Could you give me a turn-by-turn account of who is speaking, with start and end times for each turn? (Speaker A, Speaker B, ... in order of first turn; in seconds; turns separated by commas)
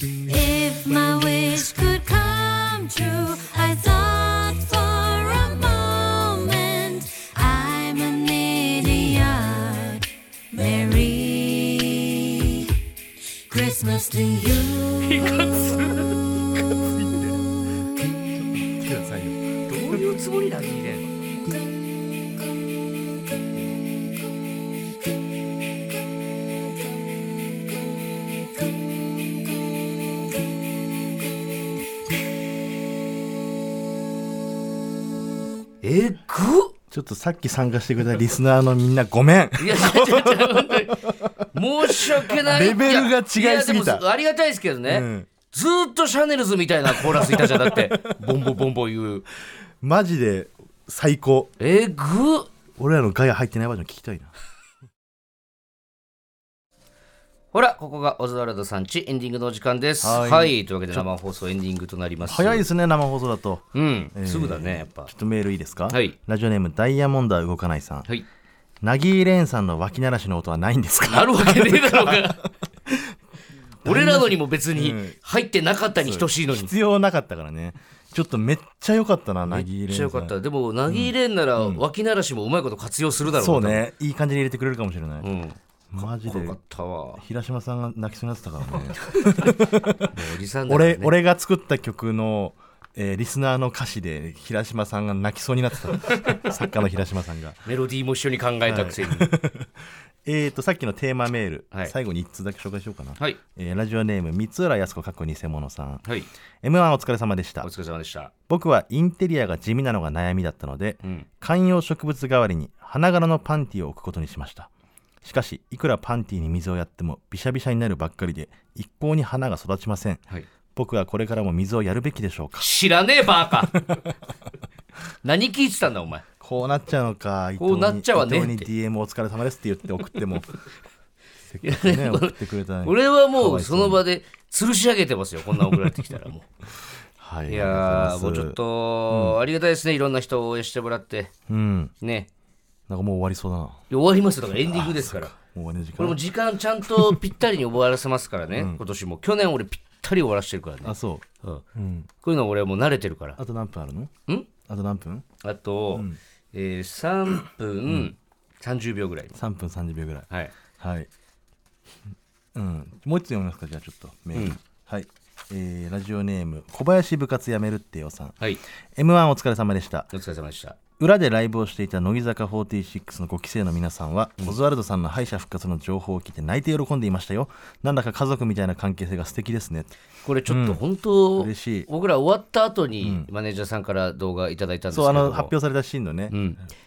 Speaker A: 0.3-12.7, Speaker A: 13.5-15.4, Speaker B: 15.1-16.0, Speaker C: 16.8-17.5, Speaker C: 18.3-20.0, Speaker B: 19.7-21.1, Speaker B: 35.8-36.8, Speaker C: 36.9-41.3, Speaker B: 39.6-49.3, Speaker C: 41.9-44.0, Speaker C: 44.9-45.3, Speaker C: 46.9-48.5, Speaker C: 49.8-51.5, Speaker B: 51.6-52.5, Speaker C: 52.8-54.3, Speaker B: 57.5-62.7, Speaker C: 60.0-61.1, Speaker C: 62.2-68.1, Speaker B: 63.7-65.1, Speaker B: 65.9-66.2, Speaker C: 68.8-73.2, Speaker B: 71.1-72.5, Speaker C: 73.8-75.2, Speaker B: 73.8-76.7, Speaker C: 76.0-80.3, Speaker B: 79.5-83.9, Speaker C: 80.9-81.8, Speaker C: 83.4-85.2, Speaker B: 85.2-87.2, Speaker C: 85.9-86.6, Speaker C: 87.2-90.2, Speaker B: 88.7-91.1, Speaker C: 90.7-97.6, Speaker B: 96.1-96.5, Speaker B: 97.7-99.4, Speaker C: 98.7-99.7, Speaker C: 100.2-106.0, Speaker C: 106.6-107.7, Speaker B: 107.6-108.3, Speaker C: 108.5-114.7, Speaker C: 115.2-122.7, Speaker B: 122.6-123.8, Speaker C: 123.7-124.1, Speaker B: 125.2-126.2, Speaker C: 126.4-130.5, Speaker B: 127.6-128.7, Speaker C: 131.5-134.0, Speaker B: 131.6-136.5, Speaker C: 137.2-138.6, Speaker B: 137.5-141.3, Speaker C: 139.1-139.4, Speaker C: 141.5-141.9, Speaker B: 142.0-142.3, Speaker C: 142.9-143.8, Speaker B: 143.9-145.3, Speaker C: 144.6-146.2, Speaker B: 146.0-151.7, Speaker C: 146.9-147.2, Speaker C: 148.5-148.8, Speaker C: 150.8-152.1, Speaker B: 152.2-153.4, Speaker C: 153.4-154.1, Speaker C: 154.7-155.3, Speaker B: 155.4-159.3, Speaker C: 159.3-161.1, Speaker C: 162.5-168.4, Speaker C: 169.0-170.1, Speaker B: 170.1-170.8, Speaker C: 171.0-179.9, Speaker B: 180.2-185.5, Speaker C: 180.5-180.8, Speaker C: 181.3-181.9, Speaker C: 183.0-183.3, Speaker C: 184.9-186.3, Speaker B: 186.3-186.6